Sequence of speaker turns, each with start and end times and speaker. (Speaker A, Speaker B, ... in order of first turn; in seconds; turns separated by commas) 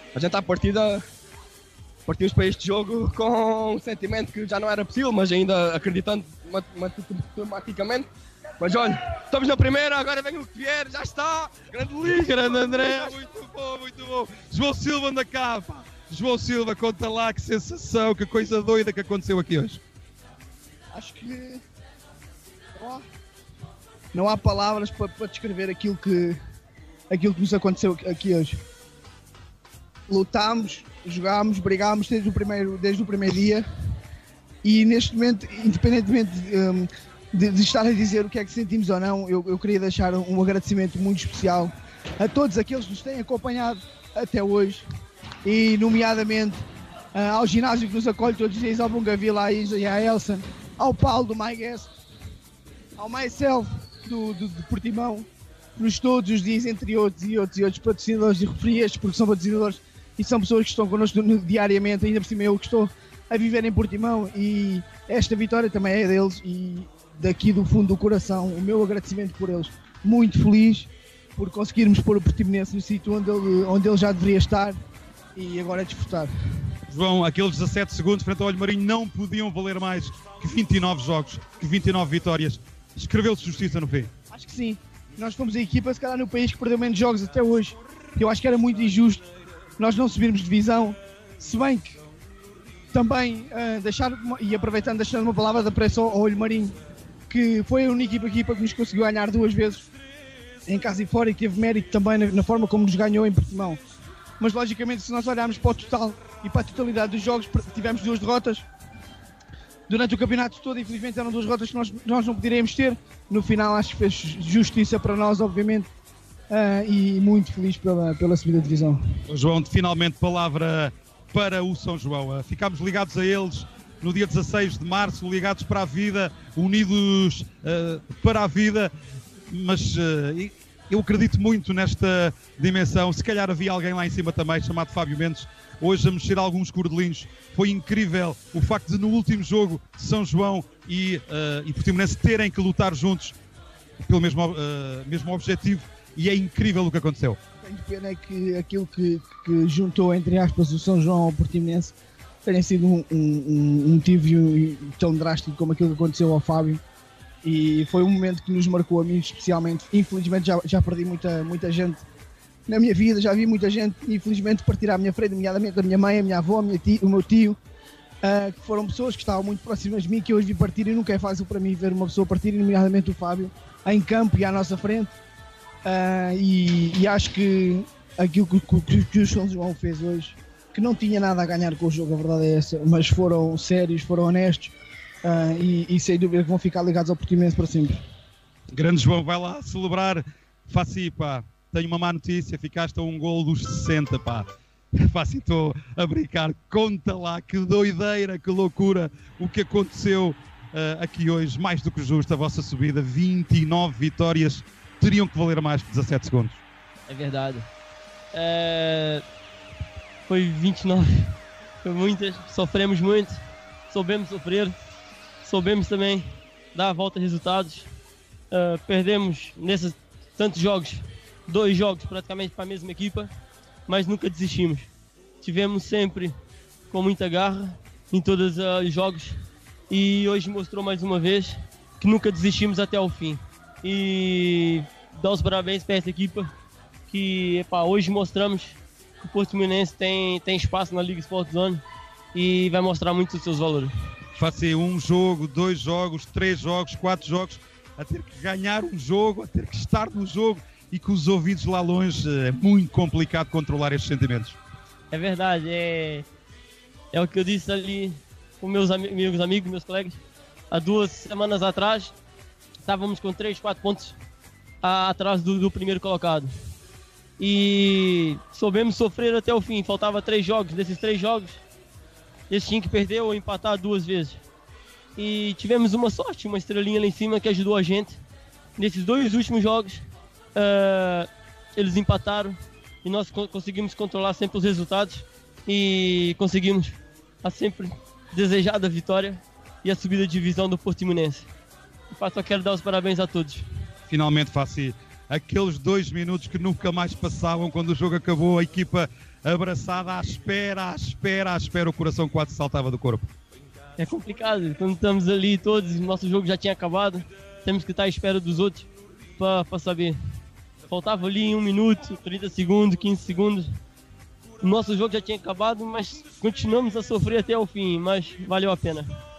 Speaker A: 0.1-1.0, Speaker A: 2.1-8.1, Speaker A: 8.6-13.1, Speaker B: 12.0-19.8, Speaker C: 20.9-21.6, Speaker C: 22.8-23.0, Speaker C: 24.1-26.4, Speaker C: 27.1-28.6, Speaker C: 30.1-33.6, Speaker C: 34.6-44.9, Speaker C: 45.5-46.6, Speaker C: 47.1-51.9, Speaker C: 53.0-74.8, Speaker C: 75.3-76.3, Speaker B: 76.9-84.1, Speaker C: 84.3-89.3, Speaker C: 89.8-92.0, Speaker C: 92.9-96.8, Speaker C: 97.3-99.9, Speaker C: 100.7-103.8, Speaker C: 104.4-108.7, Speaker C: 109.9-115.9, Speaker C: 116.5-119.0, Speaker B: 119.3-128.9, Speaker B: 129.5-143.4, Speaker B: 144.0-147.4, Speaker C: 147.6-151.9, Speaker C: 152.4-156.8, Speaker C: 157.4-162.0, Speaker C: 162.7-167.6, Speaker C: 168.2-175.2, Speaker C: 175.8-188.0, Speaker B: 188.7-194.5, Speaker B: 195.1-206.6, Speaker D: 207.1-207.7, Speaker D: 208.3-209.2, Speaker D: 210.3-213.4, Speaker D: 213.9-214.7, Speaker D: 215.4-217.9, Speaker D: 218.5-223.3, Speaker D: 223.9-224.9, Speaker D: 225.4-226.3, Speaker D: 226.9-229.3, Speaker D: 229.9-236.5, Speaker D: 237.1-241.8, Speaker D: 242.3-243.9, Speaker B: 244.4-254.6, Speaker D: 255.1-256.3, Speaker D: 257.1-260.2, Speaker D: 260.7-262.1, Speaker D: 262.9-264.2, Speaker D: 264.8-266.5, Speaker D: 267.4-271.6, Speaker D: 272.5-274.4, Speaker D: 275.2-278.2, Speaker D: 278.8-280.0, Speaker D: 280.6-291.5, Speaker D: 292.1-293.6, Speaker B: 294.1-303.3, Speaker D: 304.0-310.2, Speaker D: 310.9-313.7, Speaker D: 314.6-319.1